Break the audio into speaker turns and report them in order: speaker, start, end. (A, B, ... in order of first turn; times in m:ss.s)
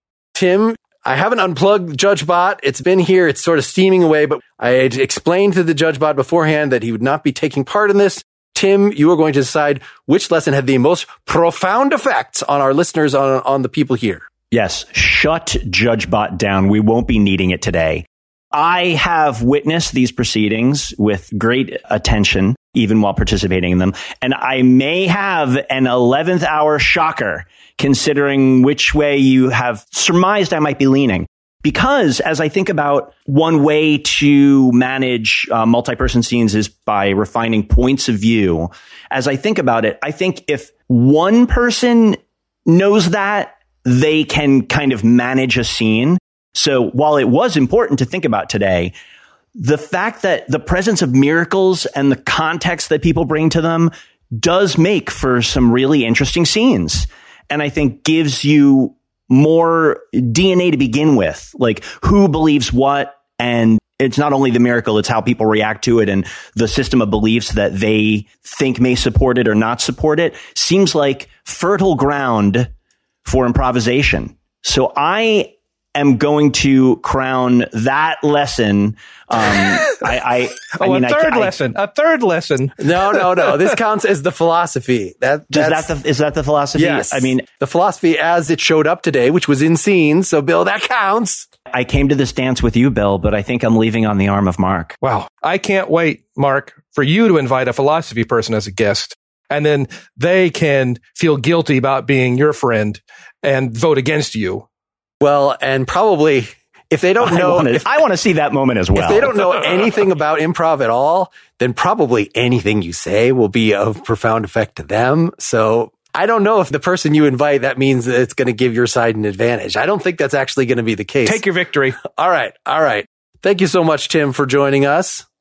0:00.4-0:14.3 A
0:14.5-0:48.9 B
0:49.6-1:12.7 B
1:13.2-1:21.5 B
1:19.5-1:20.1 C
1:20.7-1:23.7 C
1:22.8-1:25.9 A
1:25.5-1:27.4 B
1:26.8-1:31.5 A
1:31.7-1:35.0 B
1:35.0-1:44.6 C
1:45.2-1:47.9 A
1:47.2-1:49.6 B
1:49.0-2:01.4 A
2:01.3-2:02.0 C
2:02.0-2:05.3 A